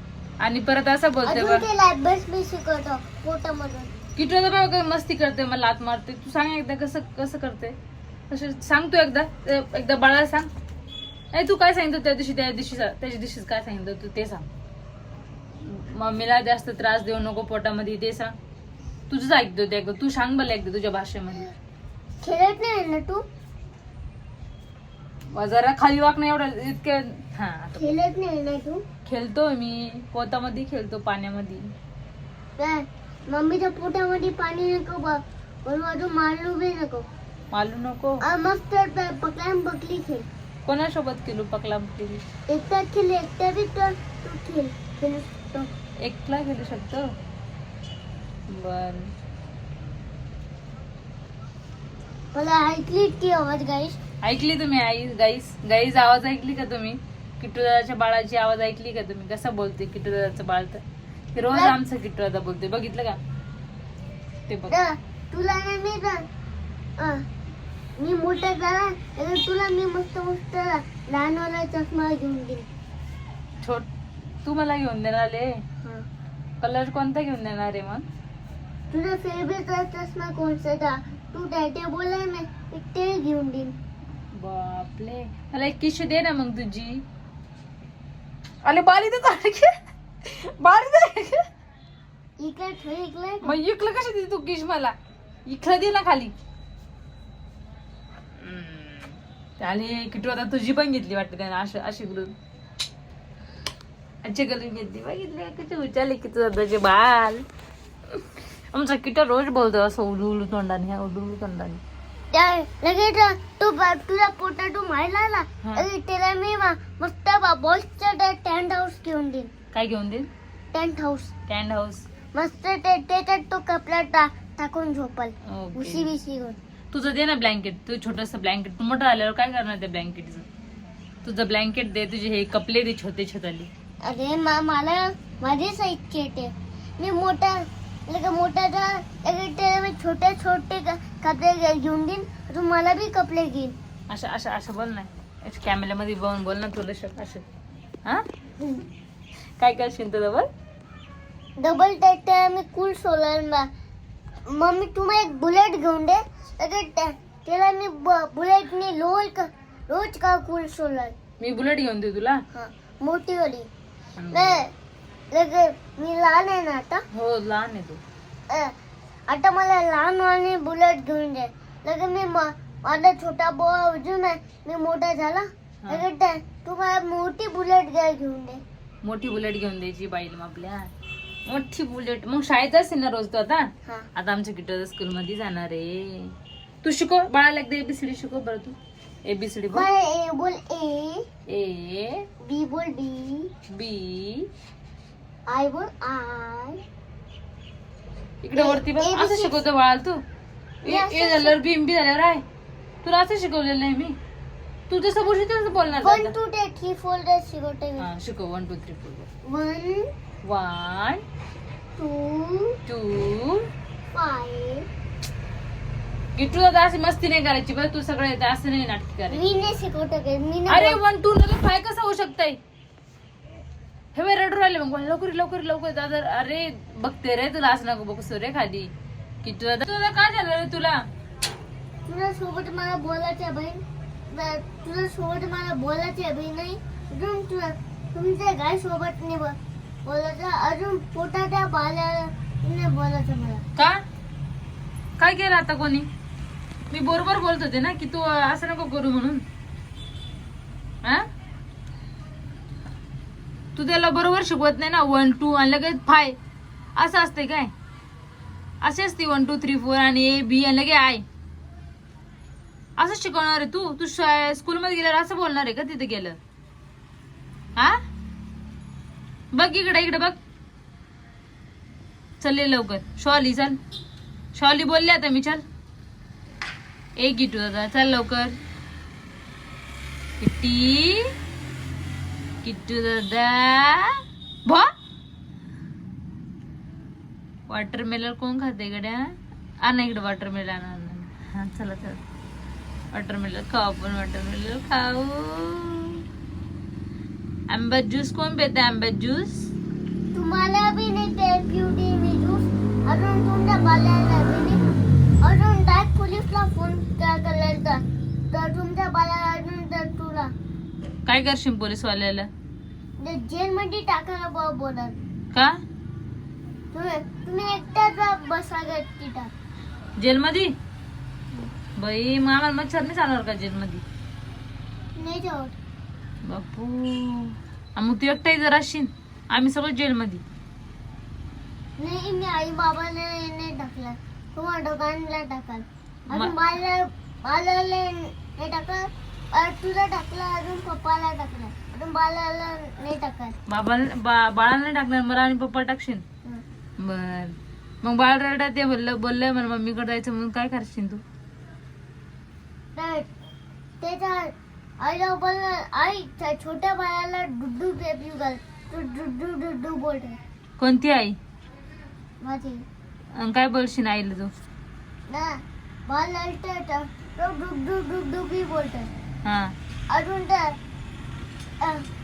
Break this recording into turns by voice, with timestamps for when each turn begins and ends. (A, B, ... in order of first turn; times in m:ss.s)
0:00.4-0:01.6 A
0:01.2-0:03.9 B
0:04.2-0:07.8 A
0:08.3-0:10.5 A
0:11.3-0:14.5 A
0:15.6-0:18.3 A
0:19.1-0:21.5 A
0:22.2-0:23.2 B
0:25.3-0:28.0 A
0:27.8-0:28.8 B
0:29.0-0:31.7 A
0:32.6-0:37.0 B
0:37.5-0:38.2 A
0:38.2-0:40.3 B
0:40.6-0:42.2 A
0:42.5-0:45.7 B
0:46.0-0:47.0 A
0:48.5-0:49.1 A
0:52.3-0:54.0 B
0:54.2-1:00.8 A
1:01.3-1:03.2 A
1:01.5-1:01.8 B
1:04.5-1:04.7 A
1:04.7-1:06.2 B
1:07.0-1:07.2 B
1:08.0-1:12.7 B
1:14.4-1:15.6 A
1:16.6-1:18.1 A
1:18.9-1:23.7 B
1:24.3-1:27.0 A
1:28.6-1:29.7 A
1:30.2-1:31.4 A
1:32.4-1:33.5 B
1:33.4-1:34.9 A
1:35.4-1:36.3 A
1:38.4-1:42.3 A
1:44.2-1:47.4 A
1:48.1-1:51.8 A
1:52.3-1:59.5 B
1:59.7-2:00.3 A
2:00.7-2:01.3 B
2:01.5-2:02.0 A
2:02.3-2:06.6 B
2:05.5-2:06.1 A
2:06.9-2:10.5 A
2:11.2-2:13.7 A
2:14.0-2:23.8 B
2:24.1-2:27.4 A
2:28.6-2:28.8 B
2:29.6-2:30.5 A
2:31.6-2:33.7 B
2:34.5-2:41.2 B
2:41.4-2:42.4 A
2:42.5-2:43.7 B
2:44.2-2:44.6 A
2:44.3-2:44.7 B
2:45.3-2:47.0 B
2:47.1-2:48.0 A
2:49.3-2:58.6 B
2:59.0-3:00.9 A
3:01.5-3:09.9 A
3:09.7-3:11.2 B
3:11.5-3:12.2 A
3:12.4-3:13.5 B
3:13.7-3:14.5 A
3:15.5-3:16.8 B
3:18.4-3:20.2 A
3:18.6-3:19.6 B
3:20.8-3:22.4 A
3:20.8-3:21.6 B
3:23.0-3:24.2 A
3:24.9-3:26.3 A
3:26.0-3:28.1 B
3:28.0-3:29.3 A
3:29.4-3:30.1 B
3:30.4-3:31.2 A
3:32.0-3:32.8 B
3:32.9-3:33.7 A
3:34.1-3:34.8 B
3:36.4-3:39.4 A
3:39.3-3:41.0 B
3:40.7-3:42.6 A
3:44.1-3:48.9 A
3:49.4-3:51.0 A
3:52.0-4:03.6 B
4:03.8-4:04.0 A
4:05.2-4:06.1 A
4:06.9-4:09.4 A
4:13.8-4:16.4 A
4:16.9-4:17.7 A
4:18.8-4:21.2 A
4:23.0-4:26.4 A
4:29.5-4:30.4 A
4:32.4-4:33.8 A
4:34.5-4:35.6 A
4:37.2-4:38.6 A
4:40.4-4:41.3 A
4:42.6-4:44.9 A
4:47.7-4:52.2 A
4:53.1-4:56.2 A
4:57.7-4:59.7 A
5:00.3-5:04.9 B
5:05.4-5:10.5 B
5:11.2-5:12.5 A
5:13.2-5:15.2 B
5:16.9-5:19.5 B
5:20.2-5:20.7 A
5:22.0-5:24.0 A
5:25.2-5:25.7 B
5:26.4-5:30.4 A
5:32.0-5:43.6 B
5:36.3-5:36.5 A
5:43.7-5:46.2 A
5:47.0-5:51.2 A
5:52.9-5:53.3 B
5:54.0-6:00.4 B
6:00.8-6:01.4 A
6:02.4-6:02.8 B
6:03.3-6:04.5 A
6:05.3-6:09.1 B
6:09.4-6:09.7 A
6:10.1-6:10.8 B
6:11.8-6:12.0 B